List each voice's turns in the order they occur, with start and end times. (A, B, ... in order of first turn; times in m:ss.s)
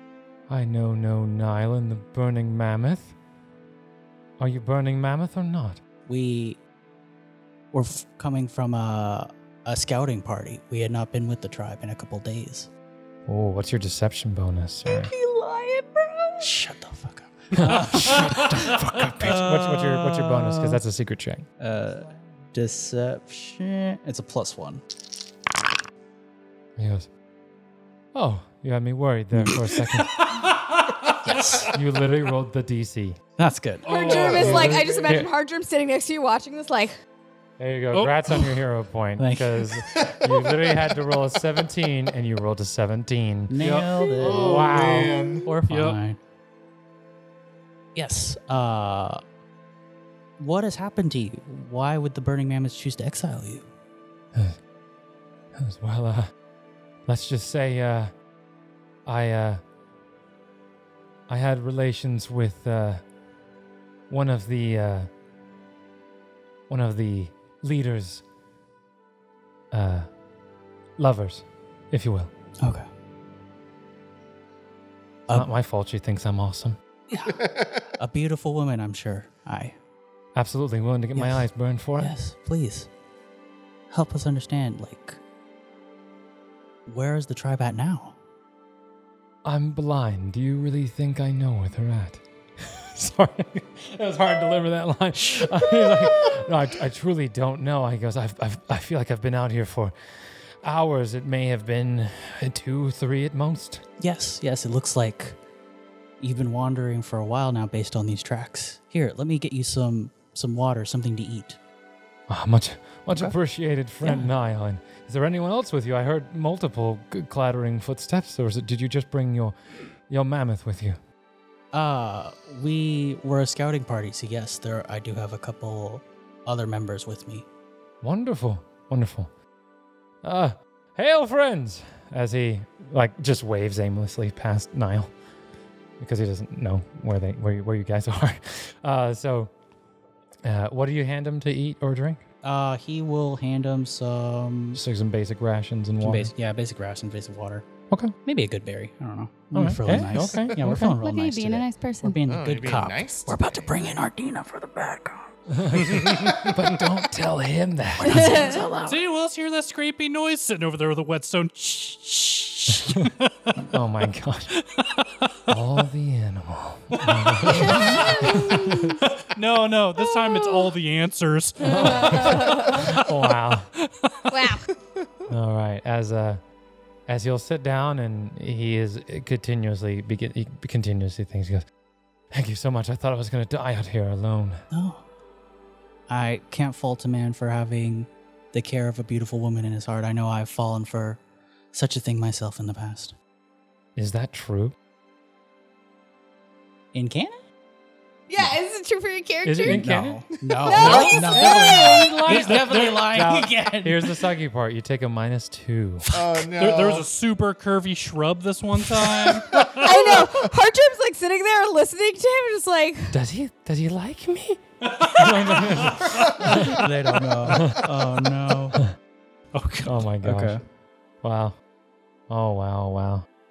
0:00.5-0:03.1 A
0:04.4-0:05.8 A
0:06.0-0:06.6 B
0:07.7-0:12.7 B
0:13.3-0:15.1 A
0:14.9-0:16.5 C
0:16.4-0:20.8 B
0:17.5-0:21.4 A
0:17.6-0:18.6 D
0:21.6-0:24.8 B
0:26.8-0:27.1 A
0:28.1-0:30.2 A
0:30.1-0:31.2 D
0:31.2-0:31.7 B
0:31.7-0:33.2 A
0:33.4-0:33.9 B
0:33.8-0:35.1 D
0:33.8-0:36.9 C
0:34.3-0:35.3 A
0:37.6-0:43.5 A
0:37.9-0:38.6 D
0:39.2-0:39.8 B
0:40.0-0:40.3 E
0:43.5-0:44.8 B
0:43.6-0:44.1 D
0:44.2-0:45.5 E
0:44.2-0:45.2 A
0:45.4-0:46.2 B
0:45.7-0:46.0 D
0:47.9-0:49.2 B
0:50.4-0:53.7 B
0:55.6-0:56.3 A
0:57.0-0:58.1 A
0:59.0-0:59.6 A
1:01.3-1:03.0 A
1:04.1-1:05.1 A
1:06.7-1:08.2 A
1:09.7-1:10.1 A
1:11.0-1:12.3 A
1:12.6-1:12.9 B
1:15.3-1:16.8 A
1:17.1-1:19.8 B
1:20.3-1:22.1 A
1:21.1-1:22.9 B
1:23.9-1:25.2 B
1:26.8-1:28.2 B
1:29.4-1:39.9 A
1:40.6-1:43.8 A
1:44.0-1:45.4 B
1:46.2-1:51.6 B
1:52.3-1:59.5 A
1:54.0-1:54.3 B
2:00.1-2:01.0 A
2:01.7-2:07.4 B
2:08.0-2:09.3 A
2:10.2-2:15.1 A
2:16.0-2:19.5 A
2:20.4-2:22.2 A
2:22.4-2:24.8 B
2:24.7-2:26.3 A
2:26.0-2:27.7 B
2:28.2-2:35.3 B
2:29.5-2:30.9 A
2:30.2-2:30.5 E
2:30.8-2:32.2 C
2:32.2-2:34.0 E
2:35.5-2:38.5 A
2:35.7-2:36.5 D
2:38.0-2:39.0 B
2:38.0-2:38.6 C
2:38.8-2:43.3 D
2:43.7-2:44.5 A
2:44.5-2:45.1 D
2:45.5-2:49.0 A
2:47.4-2:48.5 D
2:47.5-2:49.0 C
2:49.2-2:53.1 D
2:51.6-2:53.7 A
2:51.6-2:52.9 C
2:54.3-2:54.7 C
2:55.3-2:56.4 A
2:57.1-3:01.6 A
3:02.3-3:04.6 A
3:04.7-3:05.0 B
3:06.1-3:11.2 B
3:11.7-3:13.1 B
3:14.0-3:14.7 A
3:16.9-3:17.4 B
3:18.3-3:19.8 C
3:19.4-3:20.2 A
3:19.6-3:24.1 B
3:20.6-3:22.2 C
3:20.8-3:26.0 A
3:21.8-3:23.1 D
3:26.1-3:27.1 E
3:26.5-3:30.2 D
3:29.3-3:30.0 E
3:29.8-3:33.2 C
3:33.1-3:36.8 A
3:34.8-3:36.9 D
3:36.4-3:38.8 B
3:37.5-3:37.9 A
3:39.5-3:40.0 D
3:39.8-3:40.6 A
3:40.2-3:40.6 B
3:41.2-3:41.6 A
3:42.3-3:43.2 A